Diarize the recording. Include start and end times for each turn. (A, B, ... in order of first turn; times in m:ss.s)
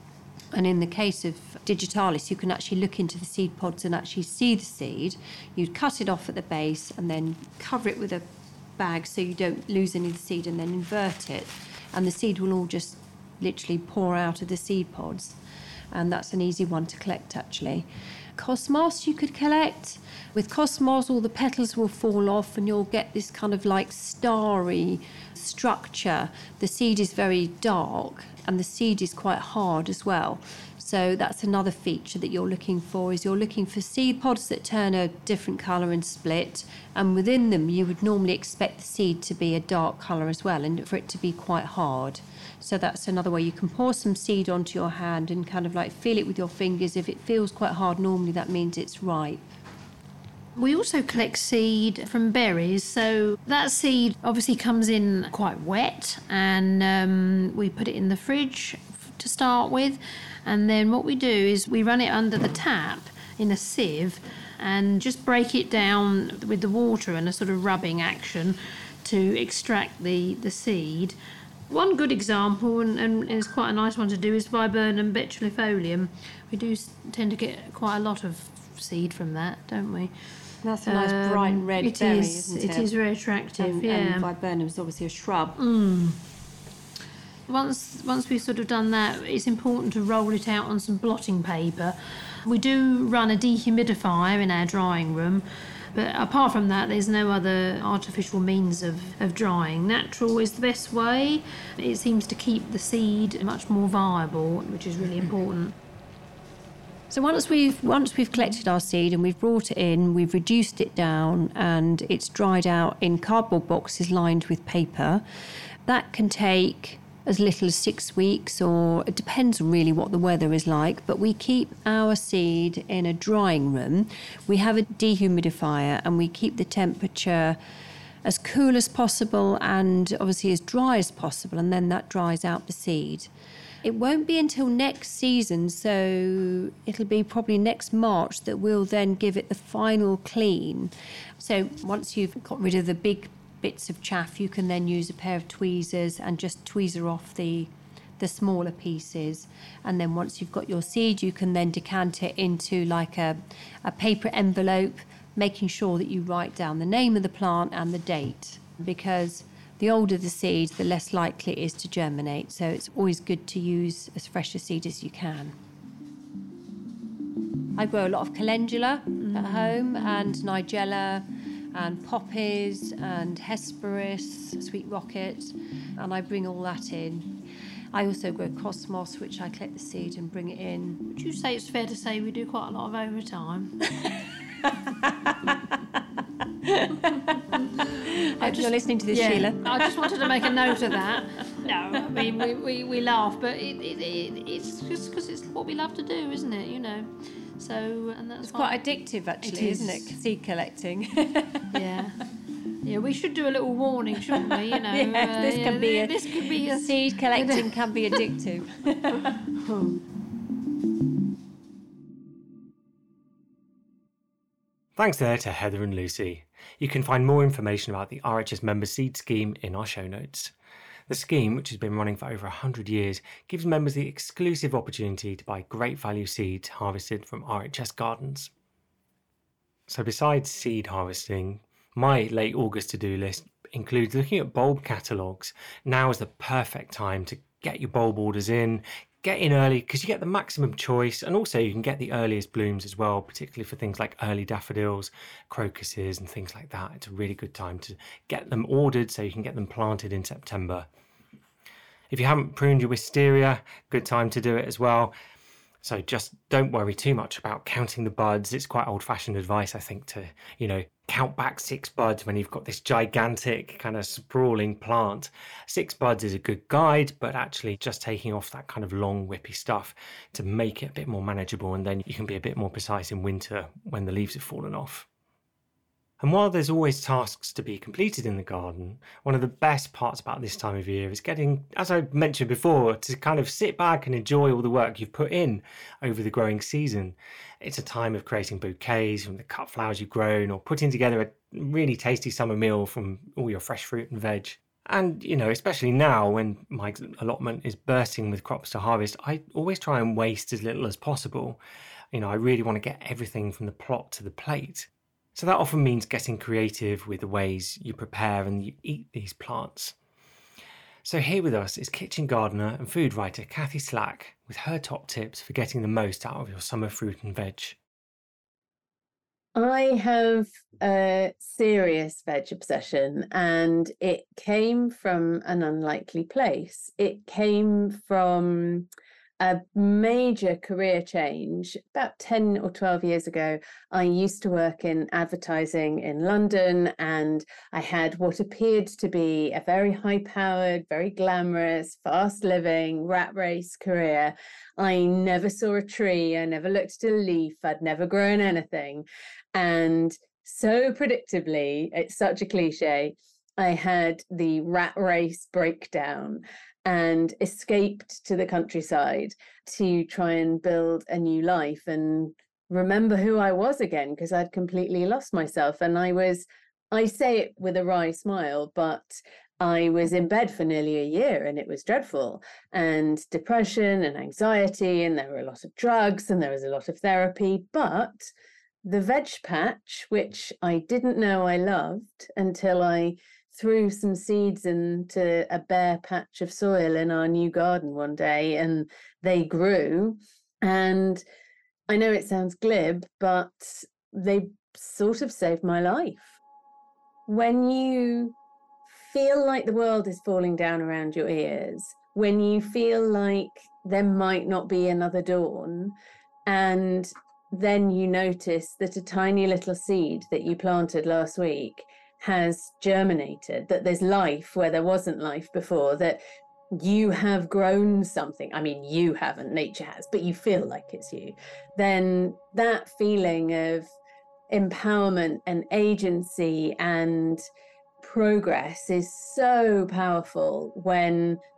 0:00.5-0:15.4 A
0:15.9-0:49.4 A
0:50.6-1:11.2 B
1:11.7-1:20.1 B
1:20.6-1:22.9 A
1:20.8-1:24.3 B
1:23.6-1:25.6 A
1:25.6-1:26.2 B
1:27.5-1:45.7 B
1:47.1-1:55.2 A
1:55.8-2:07.6 A
2:08.2-2:13.3 A
2:13.8-2:45.6 A
2:47.8-2:57.4 A
2:49.2-2:49.8 B
2:57.9-3:01.0 A
3:01.1-3:03.7 B
3:05.0-3:05.5 A
3:06.6-3:07.4 A
3:08.0-3:10.8 A
3:08.4-3:18.8 B
3:11.9-3:12.2 A
3:18.4-3:21.8 A
3:19.4-3:20.2 B
3:21.7-3:22.2 B
3:22.8-3:28.1 B
3:24.3-3:29.3 A
3:29.6-3:30.0 B
3:35.0-3:40.5 C
3:41.1-3:48.5 C
3:49.9-4:10.9 C
4:12.1-4:15.1 C
4:15.8-4:35.1 C
4:36.2-5:01.6 C
5:02.1-5:09.9 C
5:11.0-5:17.8 C
5:19.5-5:28.9 D
5:29.4-6:18.3 D
6:18.8-6:31.2 D
6:31.9-6:36.4 D
6:37.3-6:38.4 D
6:38.9-6:56.2 D
6:56.7-7:03.9 D
7:04.5-7:07.5 D
7:08.0-7:11.4 D